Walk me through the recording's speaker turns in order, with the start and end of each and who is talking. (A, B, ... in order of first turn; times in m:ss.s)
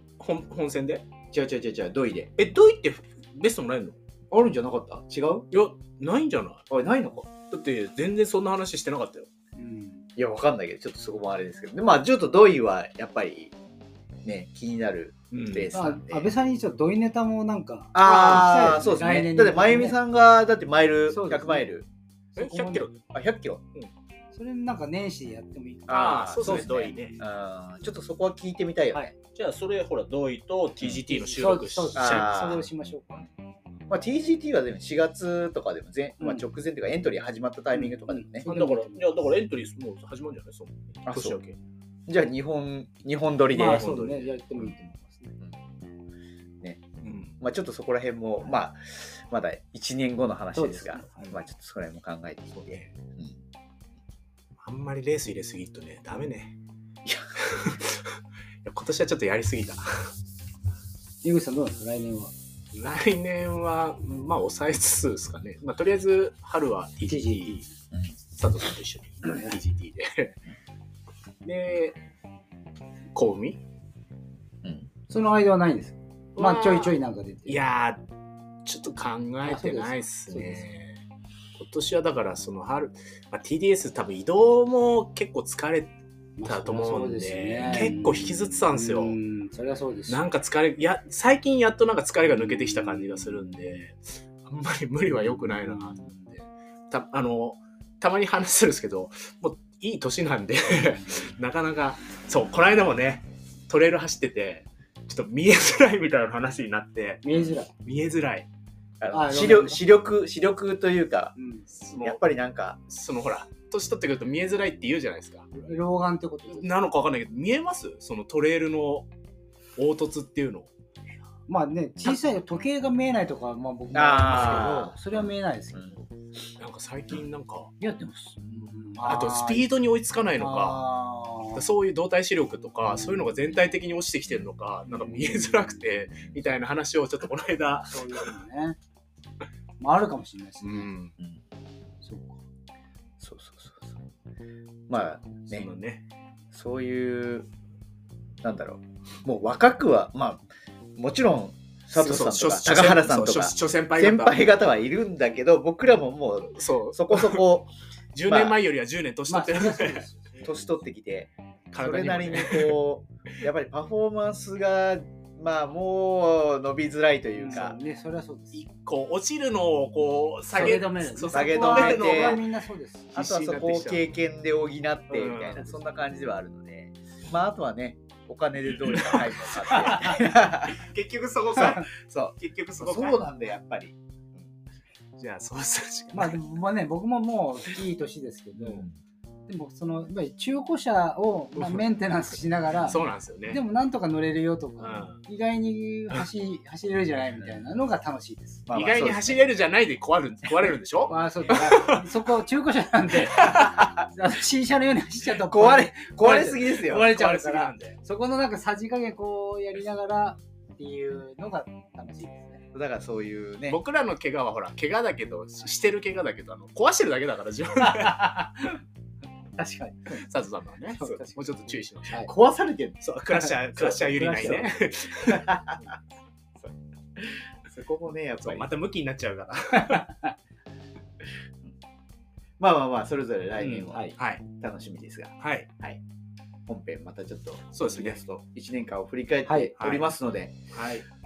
0:00.2-0:01.0 A
0:01.3-0:02.3 B
0:02.4-0:04.0 A
0:04.3-0:05.5 B
0:05.5-0:06.6 A
0:06.7-0:07.3 B
0:07.5-0:09.3 A
0:09.6-0:10.1 C
0:10.2-0:13.5 B
0:14.2-0:16.3 B
0:15.3-0:15.7 A
0:15.7-0:20.0 C
0:17.9-0:21.9 B
0:21.1-0:21.7 C
0:22.3-0:23.0 C
0:22.4-0:23.0 A
0:23.1-0:23.6 B
0:24.3-0:27.2 C
0:25.9-0:29.0 B
0:25.9-0:27.2 A
0:29.3-0:32.4 A
0:31.1-0:33.3 C
0:31.9-0:32.7 B
0:33.9-0:38.5 B
0:36.2-0:36.5 C
0:37.7-0:39.3 C
0:38.4-0:41.6 A
0:41.1-0:41.4 B
0:42.1-0:44.0 B
0:43.5-0:45.4 C
0:43.6-0:44.4 A
0:47.0-0:47.4 A
0:47.4-0:53.4 B
0:50.5-0:51.4 C
0:52.5-0:52.9 A
0:54.6-0:56.5 A
0:57.0-0:57.4 B
0:57.4-0:58.0 A
0:58.6-1:00.1 A
1:01.2-1:02.3 C
1:02.7-1:07.7 A
1:07.1-1:07.6 C
1:08.4-1:10.3 A
1:09.2-1:09.6 C
1:11.4-1:12.0 A
1:13.1-1:13.6 A
1:14.6-1:14.9 B
1:15.1-1:17.6 C
1:16.4-1:16.9 A
1:17.5-1:18.0 A
1:18.6-1:21.0 A
1:19.4-1:20.8 C
1:21.6-1:29.2 A
1:26.4-1:30.2 C
1:30.1-1:47.2 A
1:32.6-1:33.5 C
1:35.4-1:36.2 C
1:47.2-1:47.7 C
1:47.8-1:48.5 A
1:49.0-1:51.4 B
1:49.1-1:49.8 C
1:51.4-1:51.7 C
1:51.8-1:52.2 A
1:52.0-1:52.8 B
1:52.9-1:55.5 A
1:55.5-1:56.8 C
1:56.5-1:59.1 A
1:59.8-2:00.7 A
2:01.5-2:06.0 C
2:03.9-2:06.0 B
2:04.3-2:04.8 A
2:06.6-2:07.7 A
2:07.8-2:09.7 C
2:09.0-2:10.9 A
2:10.4-2:11.7 C
2:11.6-2:18.3 A
2:17.7-2:18.8 C
2:19.8-2:20.9 C
2:20.6-2:21.1 A
2:22.0-2:22.4 C
2:23.2-2:24.0 B
2:24.9-2:25.7 B
2:25.4-2:26.0 A
2:26.5-2:27.5 B
2:28.4-2:30.4 B
2:31.0-2:37.7 B
2:32.0-2:34.5 A
2:36.5-2:37.5 A
2:38.2-2:40.0 A
2:38.3-2:38.6 B
2:39.3-2:40.7 C
2:40.4-2:47.8 B
2:41.7-2:42.8 A
2:47.4-2:48.6 C
2:48.5-2:52.4 A
2:50.5-2:53.1 C
2:51.3-2:52.4 B
2:53.1-2:54.1 A
2:53.1-3:00.8 B
2:55.1-2:55.8 A
2:58.7-3:03.2 A
2:59.9-3:00.1 C
3:01.6-3:04.5 B
3:05.2-3:06.4 A
3:06.1-3:08.9 C
3:08.6-3:09.0 B
3:09.5-3:18.6 C
3:11.6-3:11.8 A
3:12.8-3:13.6 A
3:14.8-3:15.2 A
3:18.7-3:19.5 B
3:18.7-3:22.0 A
3:21.1-3:32.6 C
3:23.1-3:23.8 A
3:25.4-3:27.1 B
3:26.9-3:28.0 A
3:32.7-3:33.8 B
3:33.7-3:38.5 A
3:37.9-3:38.7 C
3:39.6-3:40.2 C
3:40.1-3:42.2 A
3:41.0-3:41.4 C
3:42.2-3:43.0 B
3:43.0-3:46.0 A
3:43.4-3:44.8 C
3:44.2-3:45.8 B
3:46.6-3:48.7 B
3:48.4-3:50.2 A
3:52.6-3:56.0 B
3:53.6-3:54.4 A
3:55.4-3:55.7 A
3:56.7-4:00.6 B
3:57.7-3:58.2 A
3:59.5-3:59.7 C
3:59.8-4:00.1 A
4:00.7-4:01.0 A